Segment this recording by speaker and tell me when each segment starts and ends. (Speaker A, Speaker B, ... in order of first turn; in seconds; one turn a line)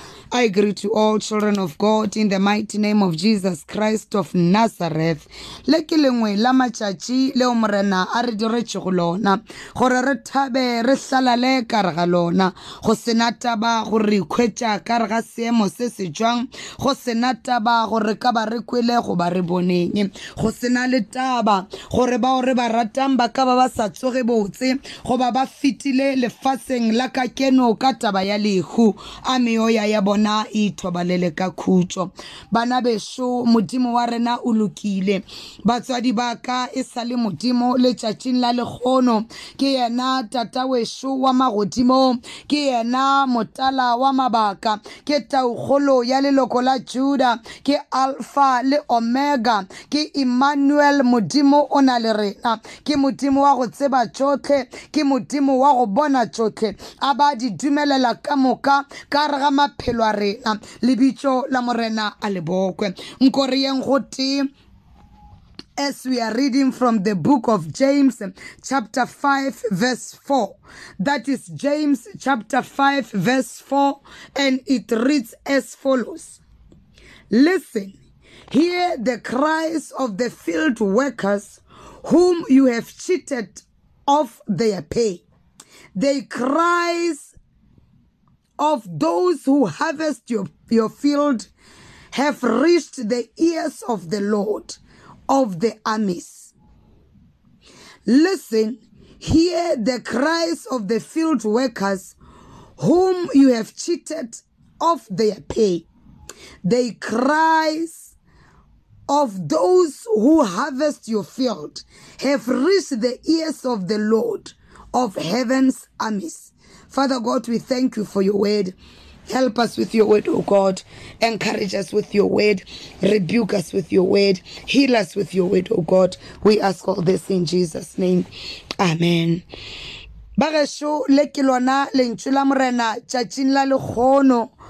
Speaker A: 0.3-64.5
Speaker A: 65.8-76.4
Speaker A: 77.3-77.9
Speaker A: 78.5-85.2
Speaker A: 86.0-87.3
Speaker A: 88.6-91.5
Speaker A: 92.1-96.5
Speaker A: 98.1-102.2
Speaker A: 102.8-105.9
Speaker A: 106.6-108.1
Speaker A: 109.1-118.8
Speaker A: 119.3-128.3
Speaker A: 128.8-129.4
Speaker A: 130.4-134.5